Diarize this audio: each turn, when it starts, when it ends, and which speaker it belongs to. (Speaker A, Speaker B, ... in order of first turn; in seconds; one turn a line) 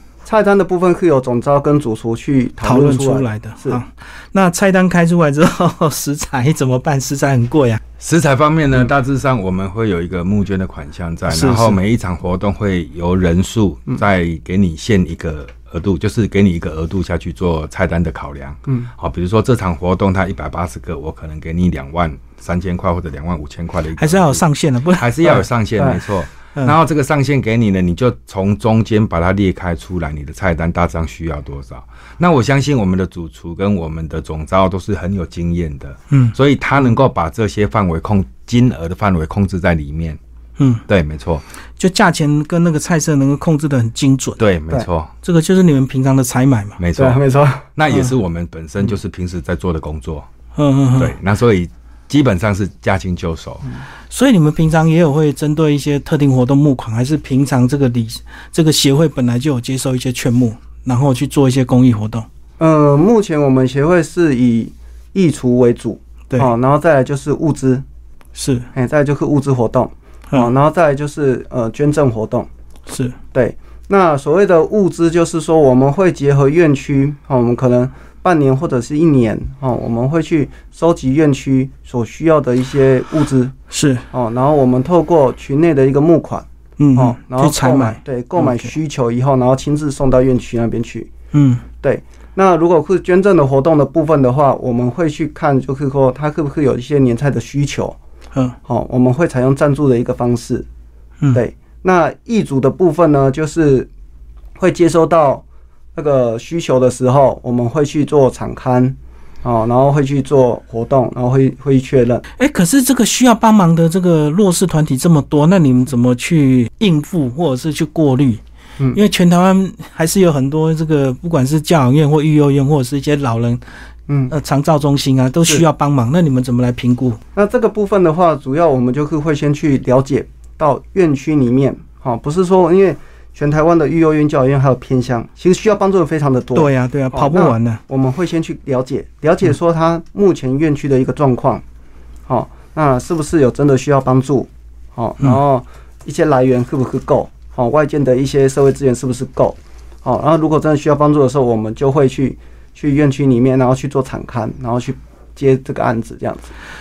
Speaker A: 0.2-3.8
Speaker B: 2.6-7.8
Speaker C: 8.0-24.4
Speaker B: 11.3-11.8
Speaker B: 24.0-25.1
Speaker C: 24.9-40.2
Speaker A: 25.2-26.0
Speaker B: 36.1-36.3
Speaker B: 40.6-40.8
Speaker C: 40.9-41.4
Speaker B: 41.8-44.4
Speaker C: 44.4-45.1
Speaker B: 45.2-46.8
Speaker C: 46.8-47.2
Speaker A: 47.0-48.1
Speaker C: 47.7-50.3
Speaker B: 50.5-51.1
Speaker C: 51.0-53.6
Speaker B: 54.1-62.3
Speaker A: 62.6-67.8
Speaker B: 68.3-68.7
Speaker A: 68.7-72.5
Speaker B: 72.9-73.2
Speaker A: 73.3-83.5
Speaker B: 83.7-84.0
Speaker A: 84.1-91.1
Speaker B: 86.8-88.7
Speaker B: 91.3-91.6
Speaker A: 91.8-98.0
Speaker A: 98.7-100.7
Speaker A: 101.3-103.9
Speaker A: 104.6-105.4
Speaker A: 105.9-112.2
Speaker B: 112.4-118.4
Speaker B: 118.9-123.6
Speaker A: 124.1-124.3
Speaker B: 124.3-127.2
Speaker A: 127.3-141.6
Speaker B: 136.5-137.8
Speaker A: 142.3-156.5